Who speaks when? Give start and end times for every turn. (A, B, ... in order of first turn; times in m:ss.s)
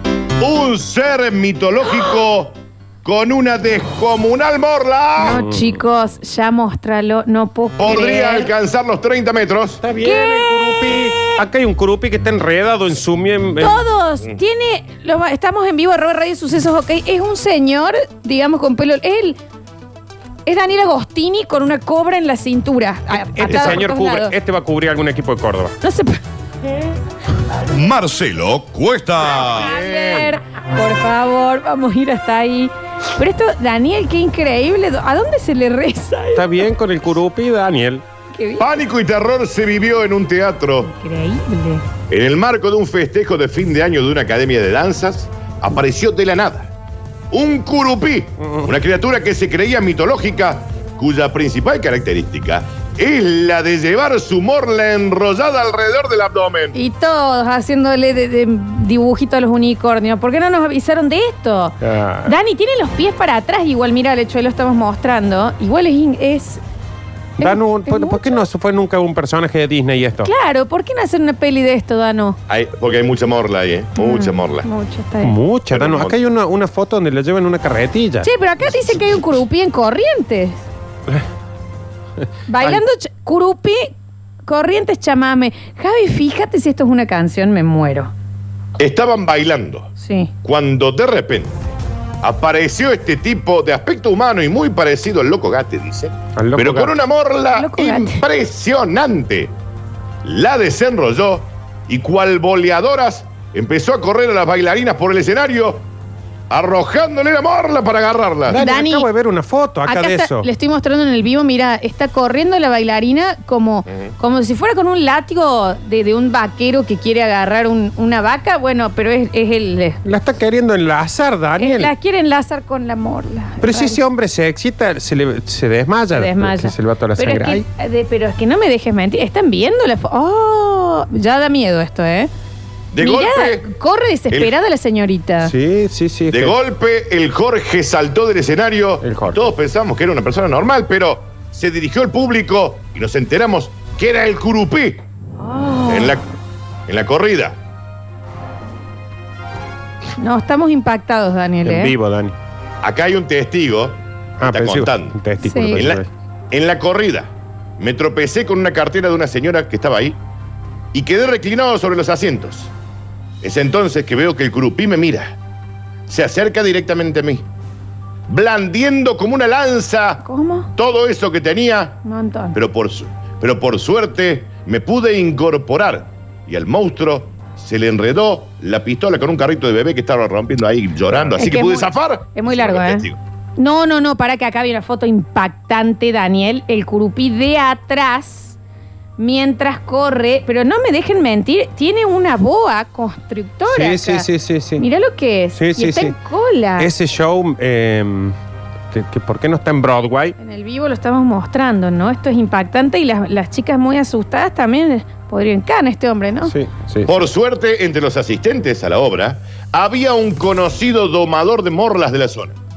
0:00.4-0:05.4 A
0:05.2-0:08.5 B
0:05.3-0:05.6 C
0:07.8-0:09.8 A
0:09.8-0:13.8 C
0:10.0-0:11.4 B
0:13.6-0:19.4 B
0:20.5-0:24.3 B
0:23.1-0:25.7 C
0:25.8-0:26.2 B
0:27.7-0:29.8 A
0:29.5-0:30.3 C
0:29.5-0:36.6 B
0:36.4-0:38.0 C
0:38.3-0:38.8 B
0:38.6-0:40.9 A
0:40.8-0:41.8 B
0:42.1-0:46.7 A
0:47.3-0:56.8 A
0:48.4-0:48.7 C
0:56.7-1:06.6 B
1:01.8-1:02.3 C
1:07.4-1:10.3 C
1:07.4-1:08.4 B
1:10.2-1:12.4 B
1:12.5-1:14.7 A
1:14.0-1:15.4 B
1:15.2-1:18.3 C
1:15.7-1:16.2 A
1:18.2-1:20.6 B
1:22.5-1:23.9 B
1:24.4-1:28.1 B
1:28.8-1:29.9 A
1:30.0-1:30.3 B
1:30.4-1:39.6 A
1:36.4-1:37.0 C
1:37.6-1:38.2 B
1:40.2-1:45.8 A
1:46.5-1:48.6 A
1:48.5-1:50.5 C
1:48.5-1:49.1 B
1:49.8-2:00.0 B
2:00.0-2:01.9 C
2:01.6-2:04.0 B
2:03.6-2:07.6 C
2:06.1-2:12.3 B
2:12.9-2:13.7 A
2:13.0-2:15.5 B
2:15.4-2:16.6 C
2:16.3-2:25.0 A
2:19.0-2:19.4 C
2:25.4-2:26.2 B
2:25.9-2:26.3 A
2:26.9-2:27.6 A
2:30.2-2:32.0 B
2:31.6-2:32.4 C
2:32.8-2:35.2 A
2:34.4-2:36.1 C
2:35.4-2:35.8 B
2:35.8-2:40.2 A
2:40.9-2:42.7 A
2:43.4-2:45.4 A
2:46.1-2:47.4 A
2:48.3-2:50.2 A
2:50.2-2:50.7 B
2:50.8-2:52.0 A
2:52.0-2:52.6 B
2:52.5-3:03.2 A
3:01.4-3:08.6 B
3:09.2-3:16.9 B
3:13.7-3:14.8 C
3:15.6-3:16.1 C
3:16.8-3:18.4 C
3:18.9-3:20.4 C
3:20.4-3:26.5 B
3:26.5-3:27.2 C
3:27.1-3:32.5 A